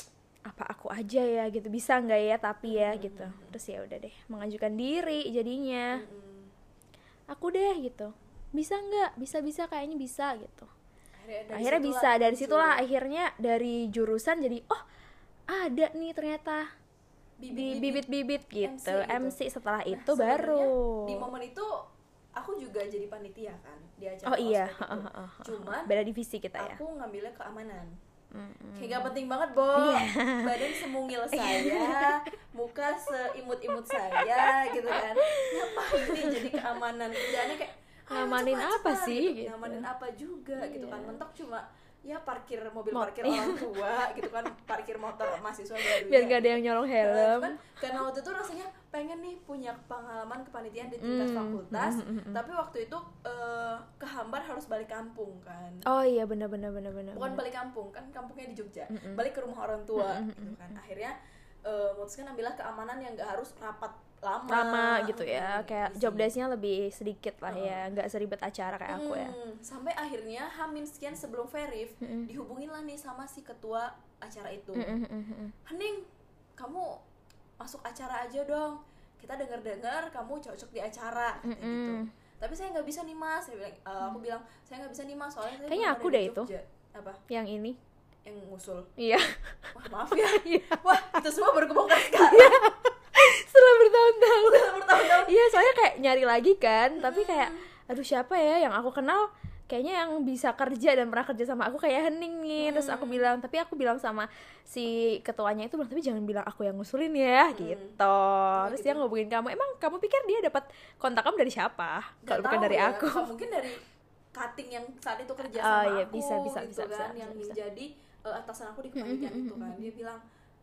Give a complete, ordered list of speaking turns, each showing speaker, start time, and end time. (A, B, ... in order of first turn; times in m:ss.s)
0:00.5-0:06.0 A
0:02.7-0:03.6 B
0:05.9-0:06.5 B
0:07.3-0:10.7 A
0:11.2-0:12.8 B
0:11.5-0:14.8 A
0:15.5-0:16.7 A
0:17.4-0:18.1 B
0:17.5-0:21.3 A
0:18.6-0:19.4 B
0:19.9-0:21.8 B
0:22.4-0:25.9 B
0:24.3-0:26.8 A
0:26.6-0:28.0 B
0:28.3-0:29.2 A
0:28.8-0:55.9 B
0:29.8-0:32.3 A
0:33.7-0:36.7 A
0:37.3-0:37.5 A
0:38.1-0:39.9 A
0:40.6-0:41.2 A
0:42.9-0:43.7 A
0:45.9-0:47.6 A
0:51.0-0:52.4 A
0:55.9-0:57.4 A
0:57.1-1:01.2 B
0:58.9-0:59.2 A
1:00.0-1:00.8 A
1:01.7-1:06.3 B
1:04.5-1:09.4 A
1:07.5-1:07.8 B
1:08.9-1:15.0 B
1:12.0-1:12.3 A
1:14.8-1:15.6 A
1:15.6-1:17.0 B
1:17.6-1:27.2 B
1:21.4-1:22.1 A
1:25.7-1:26.5 A
1:27.3-1:27.8 A
1:28.2-1:28.9 B
1:29.0-1:31.2 A
1:29.7-1:32.7 B
1:32.0-1:53.3 A
1:34.4-1:35.5 B
1:37.0-1:37.7 B
1:42.6-1:43.3 B
1:47.5-1:48.0 B
1:48.6-1:49.0 B
1:52.2-1:53.8 B
1:54.4-2:00.2 B
1:55.4-1:57.6 A
1:59.0-1:59.9 A